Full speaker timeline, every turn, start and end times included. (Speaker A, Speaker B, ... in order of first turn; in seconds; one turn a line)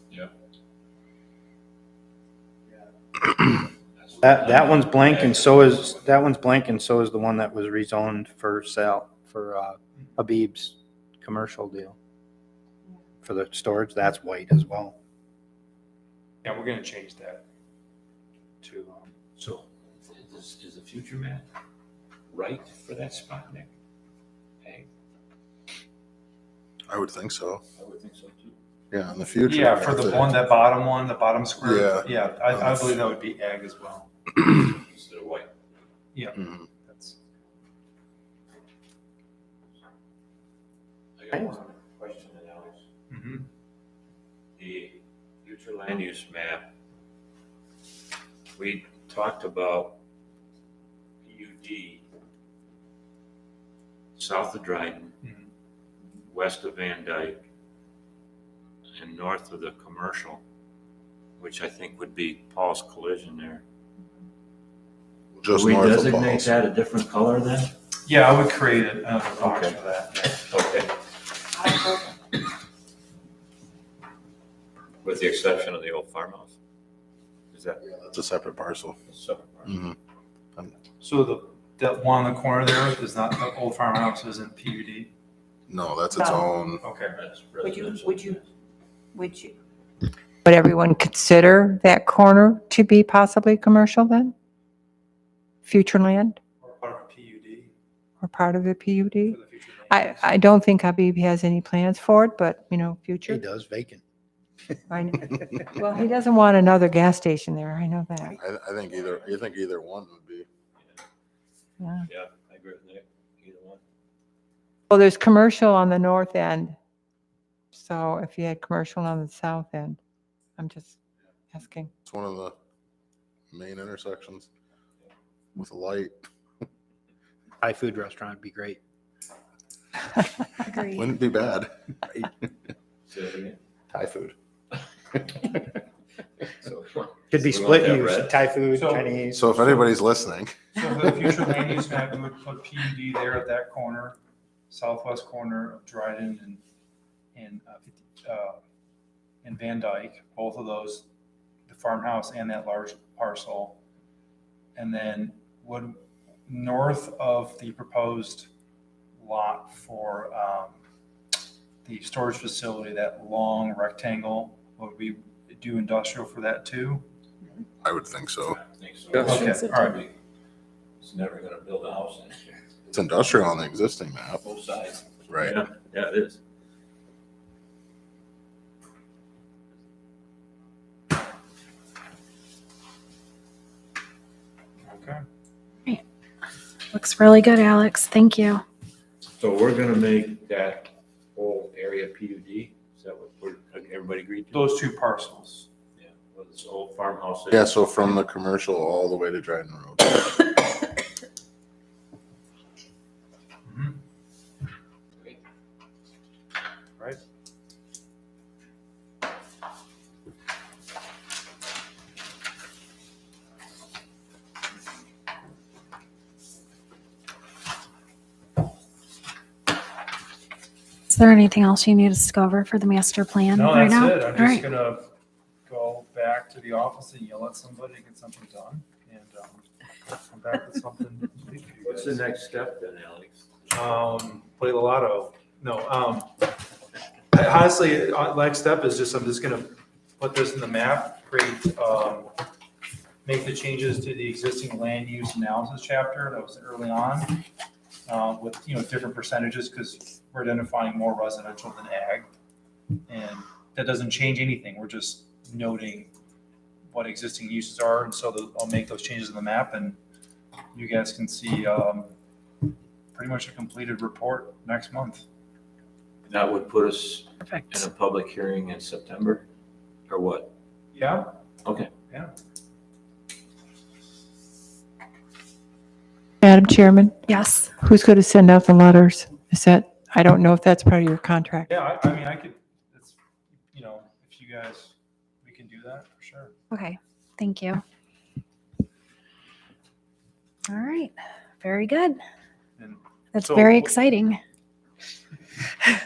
Speaker A: 4.0-6.0
Speaker B: 4.2-11.9
Speaker B: 13.2-14.9
Speaker C: 16.4-17.4
Speaker C: 18.6-19.1
Speaker A: 19.4-21.5
Speaker A: 22.3-23.7
Speaker D: 26.9-27.6
Speaker A: 27.8-28.6
Speaker D: 28.9-30.4
Speaker C: 29.4-34.1
Speaker D: 31.6-33.0
Speaker A: 34.6-35.5
Speaker C: 36.1-37.2
Speaker D: 36.3-36.7
Speaker A: 41.2-42.8
Speaker C: 43.1-43.5
Speaker A: 44.6-46.7
Speaker A: 48.6-50.0
Speaker A: 51.2-52.0
Speaker A: 54.2-55.1
Speaker C: 55.2-55.5
Speaker A: 56.3-57.4
Speaker A: 59.0-60.4
Speaker A: 61.4-63.6
Speaker D: 65.4-66.6
Speaker A: 65.5-67.7
Speaker C: 68.0-70.5
Speaker A: 69.4-69.8
Speaker A: 70.5-70.9
Speaker A: 75.0-76.5
Speaker A: 77.5-77.8
Speaker D: 77.8-79.0
Speaker A: 79.1-79.7
Speaker D: 79.6-80.0
Speaker C: 81.0-85.1
Speaker D: 85.7-86.8
Speaker C: 86.8-87.2
Speaker A: 87.1-88.5
Speaker E: 90.4-94.3
Speaker E: 95.6-96.4
Speaker C: 96.6-97.7
Speaker E: 98.2-103.4
Speaker C: 99.3-100.3
Speaker B: 103.3-104.0
Speaker E: 104.9-108.3
Speaker D: 108.3-110.5
Speaker E: 111.8-112.1
Speaker A: 112.1-113.8
Speaker E: 114.9-116.8
Speaker E: 117.7-120.0
Speaker E: 120.6-121.0
Speaker E: 121.5-121.9
Speaker D: 122.0-122.5
Speaker D: 123.5-124.5
Speaker D: 125.5-126.1
Speaker B: 127.6-128.8
Speaker F: 130.6-131.1
Speaker D: 130.8-131.7
Speaker A: 133.1-133.6
Speaker B: 133.9-134.3
Speaker A: 136.5-138.4
Speaker B: 137.3-139.6
Speaker C: 138.7-139.2
Speaker D: 139.3-140.7
Speaker C: 140.7-144.2
Speaker C: 144.7-146.6
Speaker C: 147.3-148.6
Speaker C: 149.4-151.0
Speaker C: 151.7-153.8
Speaker C: 154.8-158.5
Speaker C: 159.2-160.8
Speaker C: 161.8-167.0
Speaker D: 167.8-168.6
Speaker A: 168.5-170.1
Speaker C: 169.2-170.0
Speaker A: 171.0-172.9
Speaker D: 172.9-174.4
Speaker A: 174.4-176.4
Speaker D: 175.3-175.6
Speaker C: 184.8-185.2
Speaker F: 186.9-188.6
Speaker A: 189.4-194.8
Speaker C: 194.5-195.7
Speaker A: 196.0-197.9
Speaker D: 197.5-200.2
Speaker C: 203.6-204.0
Speaker F: 221.1-224.6
Speaker C: 223.5-225.1
Speaker C: 225.7-232.2
Speaker A: 231.8-233.7
Speaker C: 233.7-236.3
Speaker C: 237.3-242.3
Speaker C: 243.2-247.4
Speaker C: 248.1-252.3
Speaker C: 253.1-256.1
Speaker C: 256.9-260.0
Speaker C: 260.7-262.1
Speaker C: 263.1-265.2
Speaker A: 266.2-269.4
Speaker F: 267.5-267.8
Speaker A: 270.1-270.5
Speaker C: 270.9-271.3
Speaker E: 276.4-277.2
Speaker F: 277.3-277.7
Speaker E: 277.7-281.7
Speaker C: 281.7-283.2
Speaker C: 283.7-286.5
Speaker F: 286.7-287.8
Speaker F: 290.7-292.2
Speaker C: 292.8-293.9
Speaker F: 293.3-294.4